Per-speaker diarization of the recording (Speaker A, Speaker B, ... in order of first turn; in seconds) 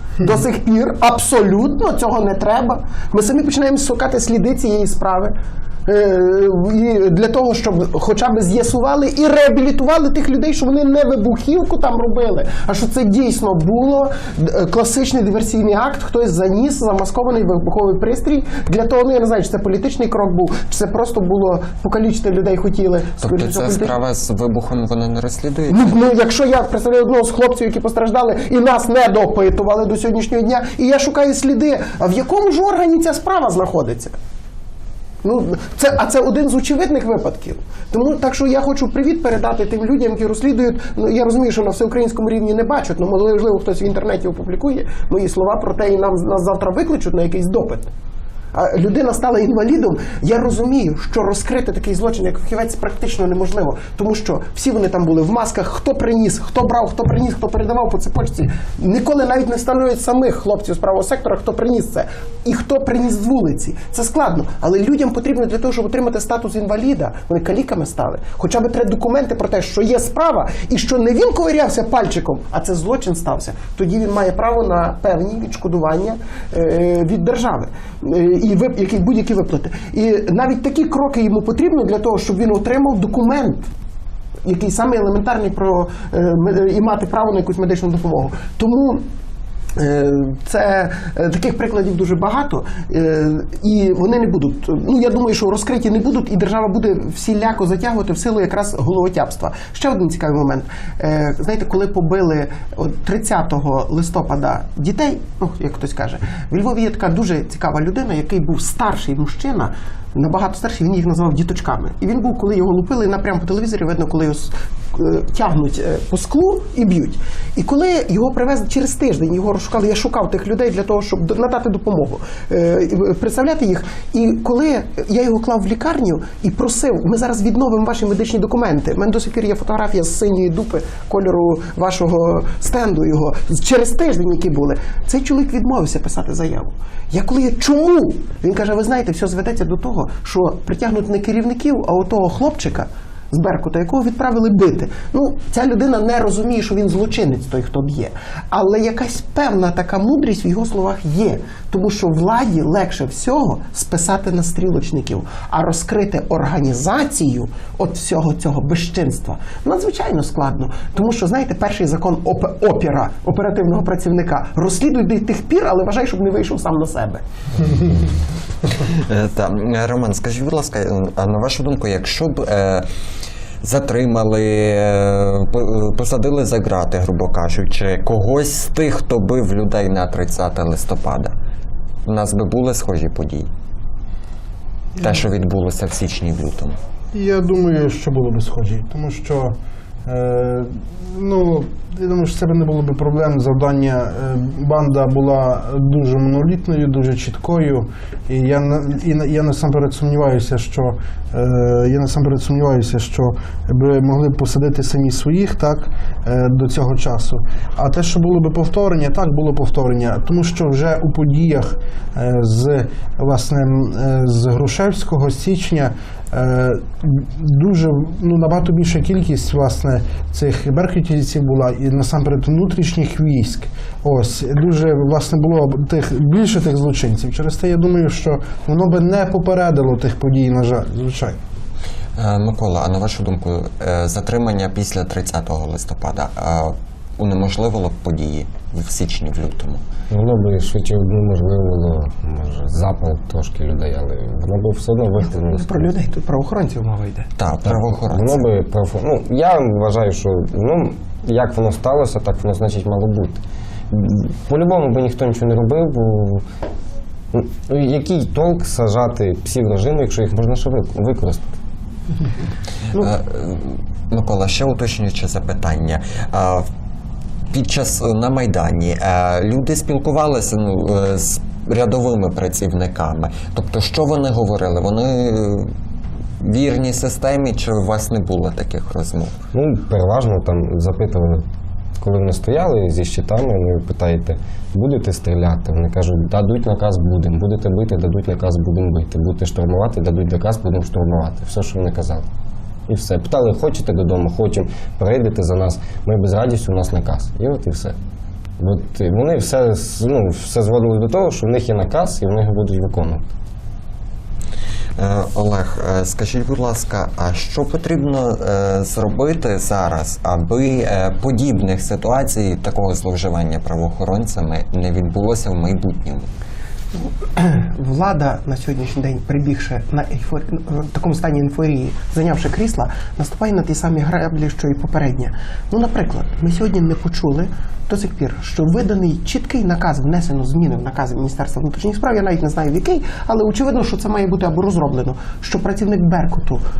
Speaker A: 0.2-5.3, 5.9-23.9, 25.7-34.2, 35.2-47.9, 48.5-83.7, 84.5-89.0, 89.8-167.2, 245.5-247.3, 317.3-336.6
Speaker B: 23.2-25.9, 168.8-172.9, 173.6-181.3, 182.1-183.5, 185.0-186.8, 232.2-239.8, 247.4-248.5, 262.9-266.7, 267.5-275.7, 276.4-279.4, 305.0-316.3
Speaker C: 187.1-189.6, 190.1-231.4
Speaker D: 240.1-245.9, 247.6-256.4, 257.3-261.5, 279.5-281.5, 282.0-292.3, 292.9-298.0, 298.6-303.3